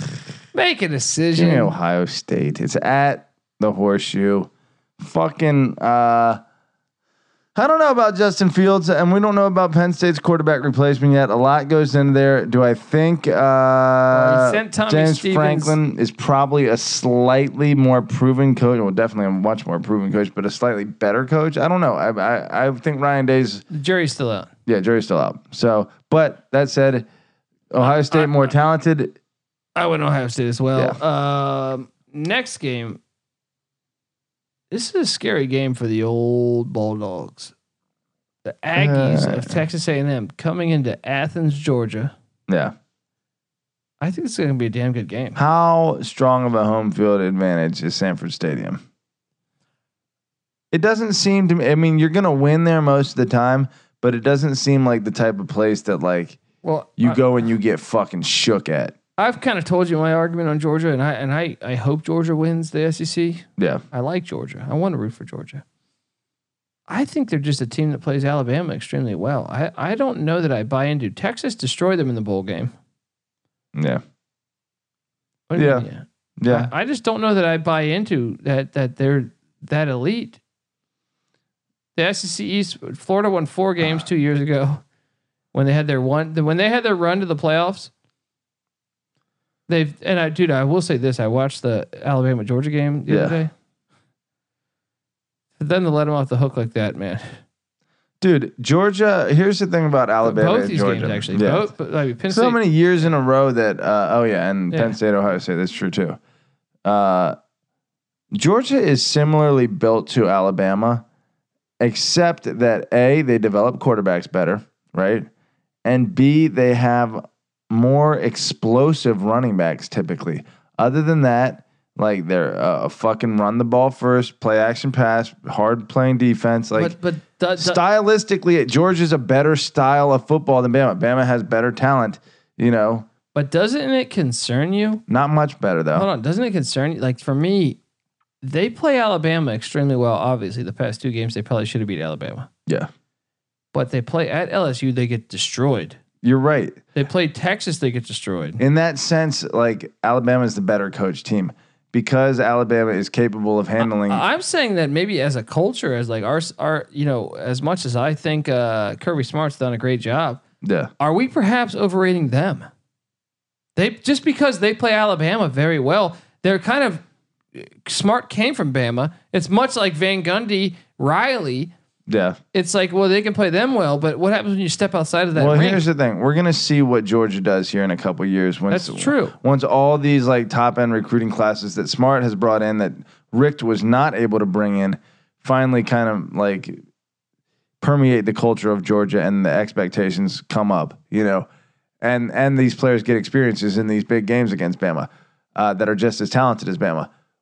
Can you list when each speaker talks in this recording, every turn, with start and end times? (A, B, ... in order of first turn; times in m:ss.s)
0:00.5-0:01.7 A
0:01.3-0:06.4 B
0:07.5-0:23.6 B
0:14.1-0:15.8 A
0:23.7-0:24.5 A
0:24.6-0:27.0 B
0:27.7-0:29.2 B
0:27.9-0:28.5 A
0:29.8-0:33.0 A
0:34.7-0:37.5 A
0:38.4-0:42.1 A
0:38.7-0:39.6 B
0:42.5-0:42.7 B
0:44.0-0:45.4 A
0:45.4-0:48.8 B
0:50.7-0:56.4 B
0:56.6-0:57.2 A
0:57.0-0:58.9 B
0:59.2-1:05.6 A
1:03.6-1:03.8 B
1:06.9-1:12.7 A
1:13.7-1:14.0 B
1:15.5-1:20.4 A
1:15.6-1:15.8 B
1:16.4-1:16.7 B
1:22.0-1:24.8 A
1:25.5-1:27.9 A
1:29.7-1:33.5 A
1:33.1-1:33.4 B
1:35.6-1:37.2 A
1:38.2-1:41.7 B
1:40.2-1:42.6 A
1:42.3-1:46.2 B
1:46.8-1:47.3 B
1:48.3-1:51.0 B
1:51.8-1:55.3 B
1:55.8-2:06.9 B
2:06.7-2:07.8 A
2:07.6-2:13.1 B
2:13.3-2:15.0 A
2:15.1-2:16.1 B
2:15.9-2:17.8 A
2:18.4-2:22.5 A
2:23.7-2:26.0 A
2:26.2-2:26.8 B
2:26.9-2:28.6 A
2:28.6-2:34.2 B
2:33.8-2:40.4 A
2:40.6-2:40.9 B
2:41.0-2:42.7 A
2:43.8-2:47.0 A
2:47.5-2:51.7 A
2:52.1-2:52.4 B
2:52.5-2:55.8 A
2:55.3-3:06.8 B
2:58.7-2:59.4 A
3:07.8-3:11.4 B
3:12.0-3:17.1 B